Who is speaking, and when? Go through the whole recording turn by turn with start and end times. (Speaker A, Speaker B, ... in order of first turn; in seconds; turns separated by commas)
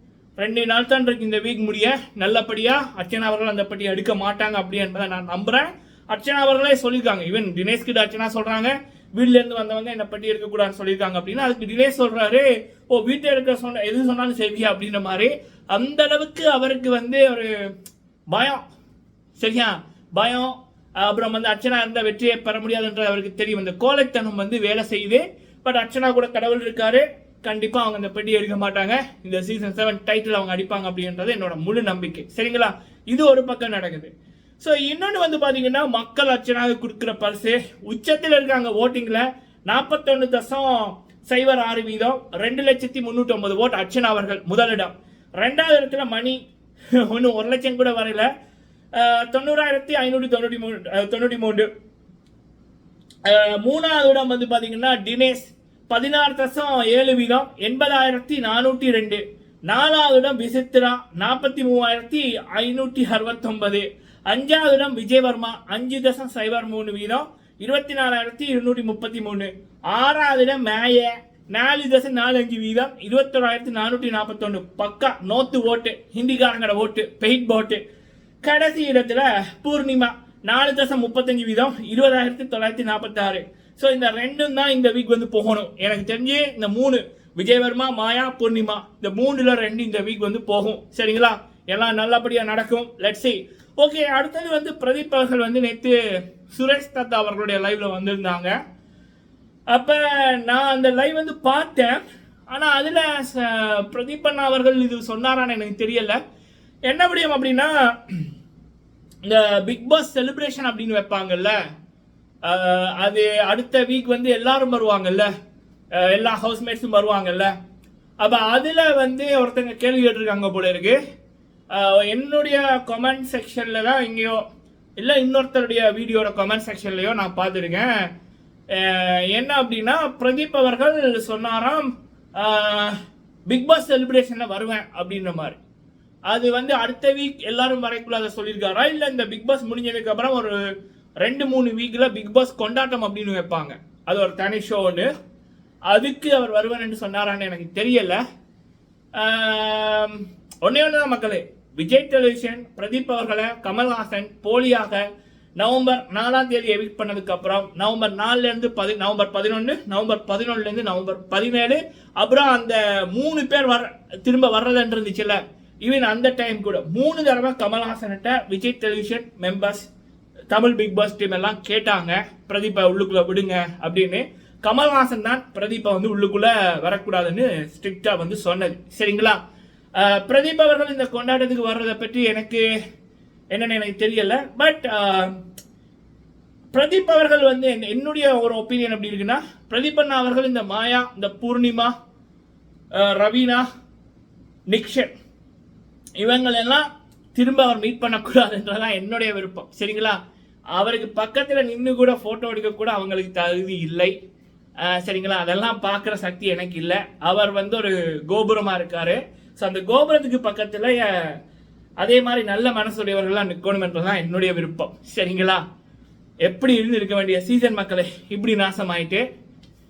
Speaker A: 0.4-17.5, Speaker A: 18.3-18.6, Speaker A: 19.4-46.4, Speaker A: 47.0-48.3, Speaker A: 48.9-51.7, Speaker A: 53.2-77.8, Speaker A: 78.4-96.0, Speaker A: 96.5-98.5, Speaker A: 99.7-106.2, Speaker A: 106.9-108.2, Speaker A: 109.2-111.5, Speaker A: 112.4-115.3, Speaker A: 116.0-117.5, Speaker A: 118.2-121.0, Speaker A: 121.7-124.4, Speaker A: 125.0-127.9, Speaker A: 128.7-133.0, Speaker A: 133.5-135.6, Speaker A: 136.3-140.6, Speaker A: 141.2-145.1, Speaker A: 145.9-148.2, Speaker A: 149.2-155.0, Speaker A: 155.6-169.8, Speaker A: 170.5-179.4, Speaker A: 180.0-182.7, Speaker A: 183.5-185.4, Speaker A: 186.7-191.9, Speaker A: 192.9-193.6, Speaker A: 194.7-195.1, Speaker A: 196.2-200.2, Speaker A: 200.8-204.1, Speaker A: 204.8-211.3, Speaker A: 212.0-215.6, Speaker A: 216.4-219.2